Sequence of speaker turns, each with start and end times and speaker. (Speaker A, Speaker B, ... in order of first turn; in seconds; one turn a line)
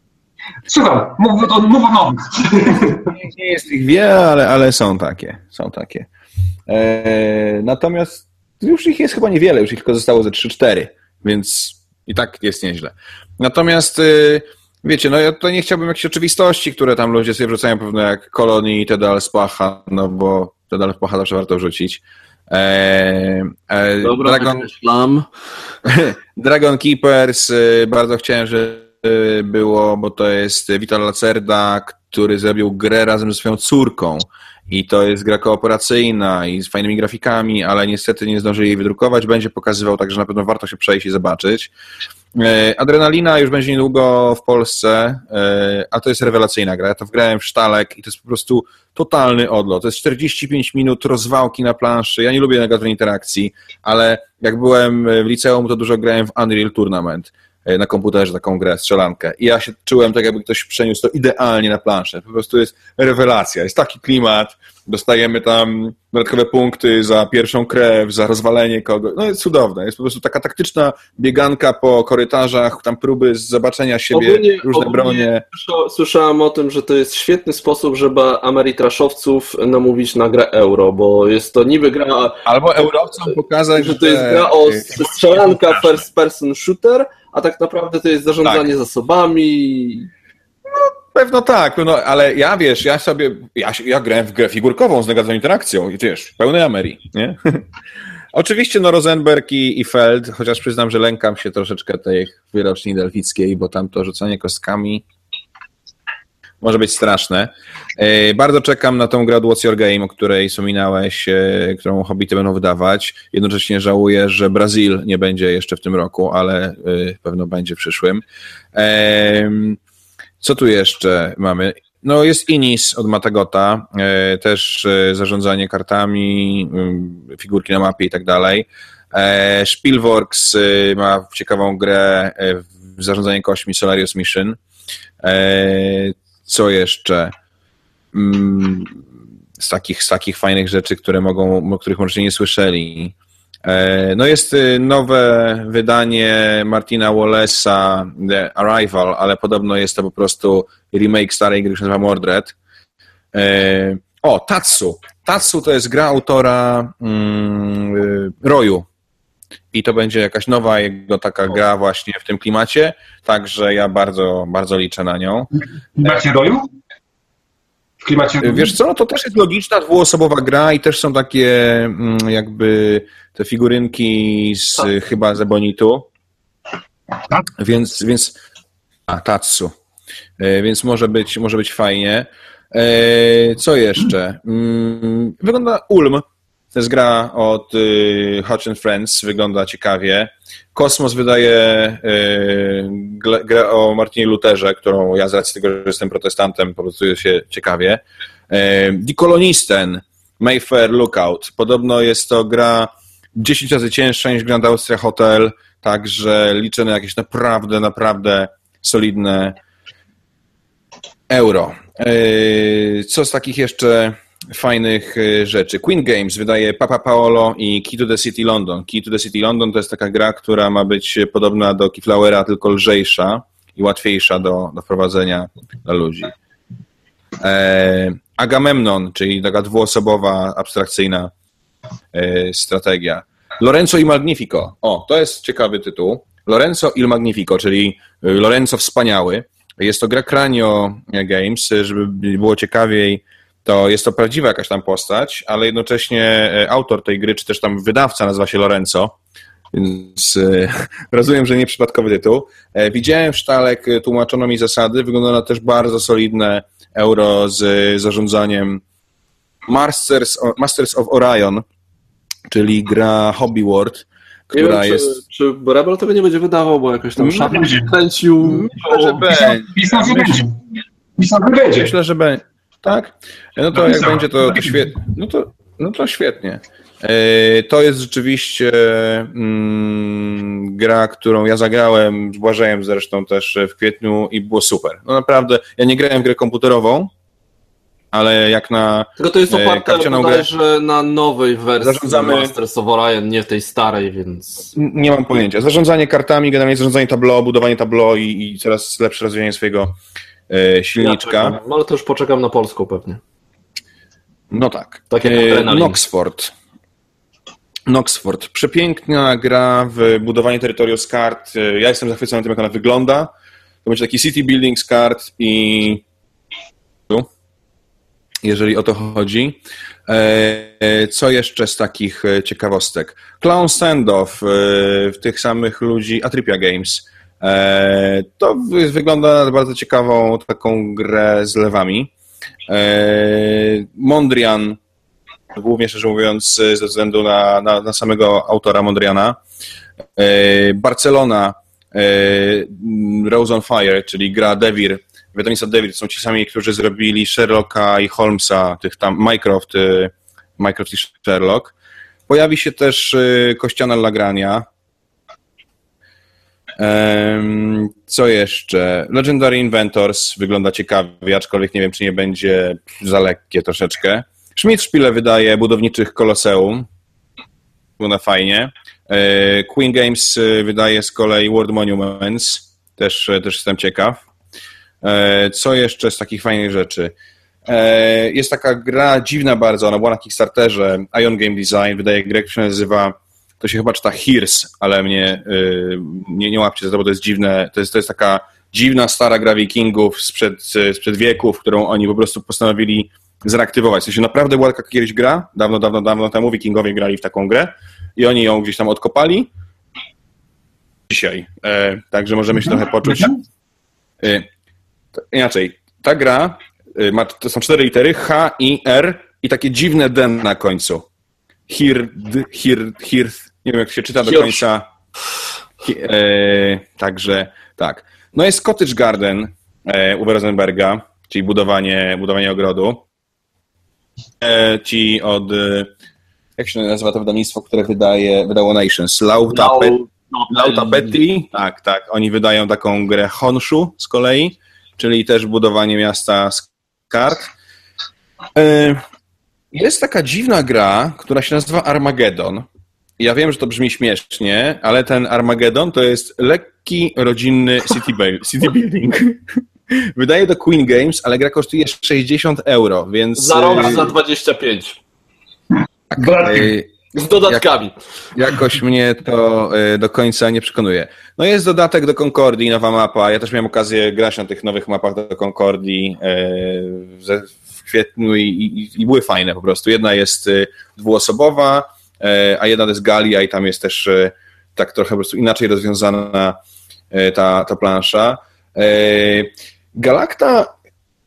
Speaker A: 0.7-3.1
Speaker B: 3.1-6.1
Speaker B: 6.7-24.7
Speaker C: 24.0-25.3
Speaker B: 25.9-41.7
Speaker B: 42.3-75.4
Speaker C: 74.1-82.4
Speaker B: 82.5-86.0
Speaker C: 83.8-90.1
Speaker B: 90.7-97.6
Speaker B: 98.3-105.0
Speaker B: 106.6-118.2
Speaker B: 118.7-119.8
Speaker B: 120.4-134.6
Speaker B: 135.2-137.3
Speaker B: 138.1-139.0
Speaker B: 139.6-152.6
Speaker B: 153.3-158.9
Speaker B: 159.7-165.5
Speaker A: 165.6-166.6
Speaker A: 168.0-168.8
Speaker B: 168.4-176.1
Speaker B: 177.6-178.4
Speaker B: 179.1-179.7
Speaker B: 180.4-209.6
Speaker B: 211.3-226.3
Speaker B: 227.4-231.3
Speaker B: 232.1-249.2
Speaker B: 249.7-258.8
Speaker B: 259.7-261.7
Speaker B: 262.5-265.2
Speaker C: 264.5-269.2
Speaker B: 267.2-267.5
Speaker A: 267.4-267.9
Speaker B: 268.4-270.5
Speaker A: 269.3-270.6
Speaker A: 271.2-271.9
Speaker B: 271.7-287.1
Speaker A: 273.7-274.9
Speaker B: 288.1-290.5
Speaker C: 289.2-294.7
Speaker B: 291.8-292.5
Speaker B: 294.8-300.0
Speaker B: 300.5-301.6
Speaker C: 301.0-303.2
Speaker B: 304.5-306.5
Speaker C: 305.1-306.0
Speaker B: 307.9-313.3
Speaker B: 313.9-316.1
Speaker B: 318.4-332.1
Speaker B: 332.7-334.8
Speaker B: 335.5-339.4
Speaker B: 340.2-351.7
Speaker B: 352.3-354.7
Speaker B: 356.8-366.9
Speaker B: 368.0-374.2
Speaker B: 375.0-377.1
Speaker B: 377.7-399.5
Speaker B: 401.1-403.3
Speaker A: 403.1-403.4
Speaker B: 404.2-404.5
Speaker B: 405.2-411.1
Speaker B: 411.7-414.9
Speaker B: 415.8-423.1
Speaker B: 424.4-425.9
Speaker B: 426.6-430.0
Speaker C: 429.5-431.2
Speaker B: 430.5-437.5
Speaker B: 438.6-439.0
Speaker B: 439.7-442.7
Speaker B: 443.2-454.1
Speaker C: 453.4-455.0
Speaker B: 456.1-456.9
Speaker A: 456.2-456.7
Speaker C: 457.1-457.9
Speaker B: 458.3-476.6
Speaker B: 477.1-480.7